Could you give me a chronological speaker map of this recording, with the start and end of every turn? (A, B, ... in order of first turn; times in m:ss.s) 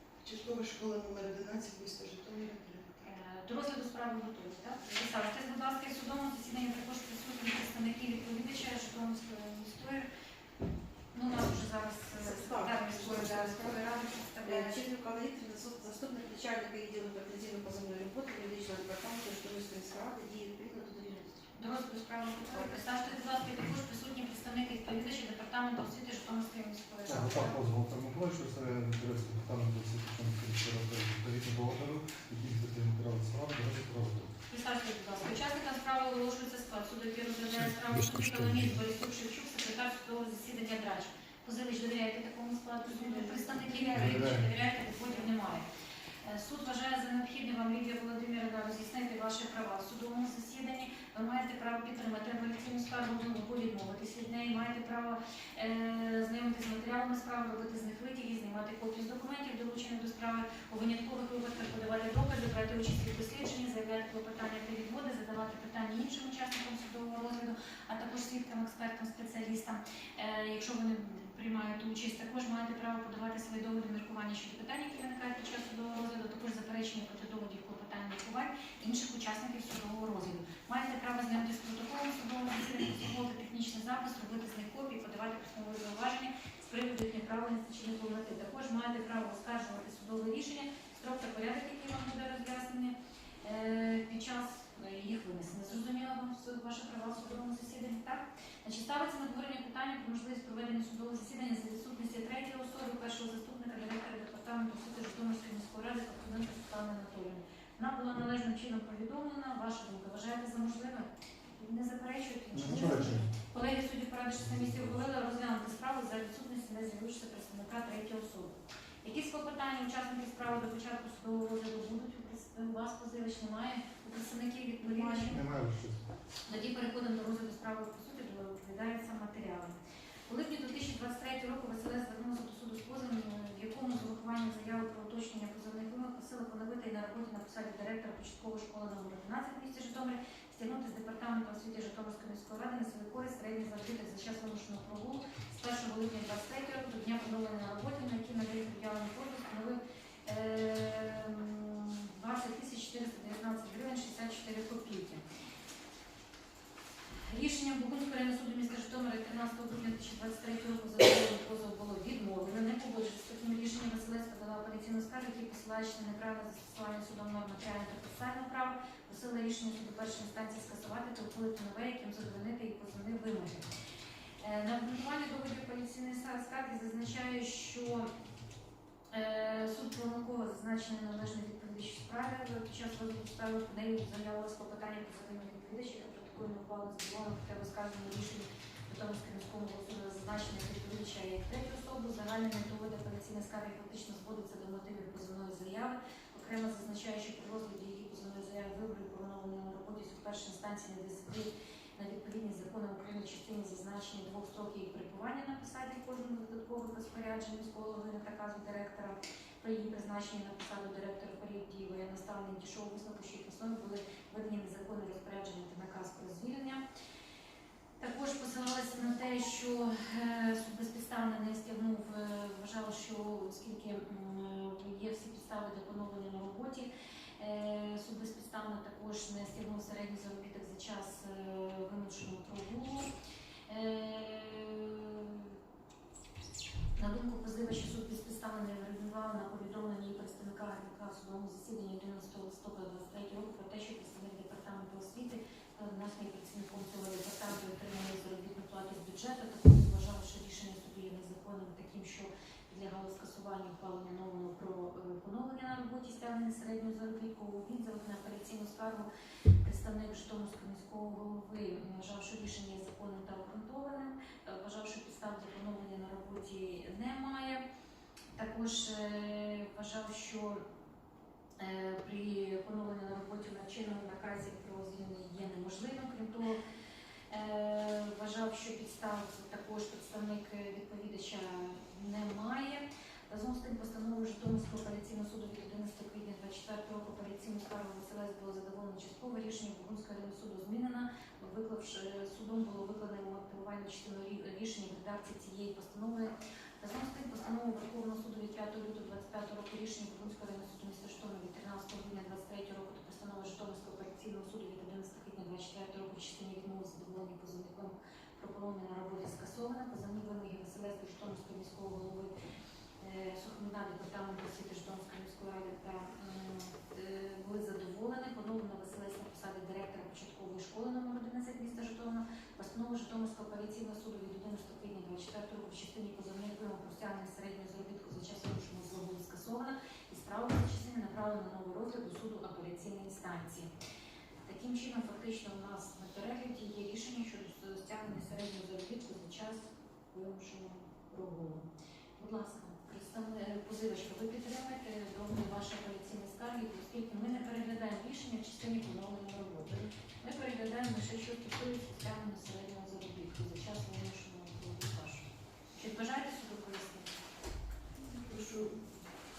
0:00.2-0:03.1 A
0:03.0-0:10.1 B
0:11.1-0:14.8 B
0:12.2-0:21.5 C
0:21.5-0:27.6 B
0:22.5-0:23.0 C
0:27.0-0:34.3 D
0:34.5-0:45.6 B
0:37.6-0:38.7 D
0:42.9-0:43.8 A
0:43.9-0:44.5 D
0:46.2-2:05.4 B
1:52.5-1:53.3 D
1:54.4-1:54.9 D
2:04.8-2:05.4 C
2:05.3-2:06.0 D
2:06.4-2:09.7 B
2:10.3-2:35.2 B
2:37.2-2:53.7 B
2:54.4-2:58.1 B
2:59.1-3:36.8 B
3:38.0-3:53.1 B
3:53.7-3:55.6 B
3:57.0-4:19.1 B
4:19.6-4:27.6 B
4:28.3-4:30.6 B
4:31.6-4:36.6 B
4:37.3-5:12.3 B
5:13.0-5:33.7 B
5:34.4-5:41.7 B
5:42.2-5:57.1 B
5:58.0-5:59.0 A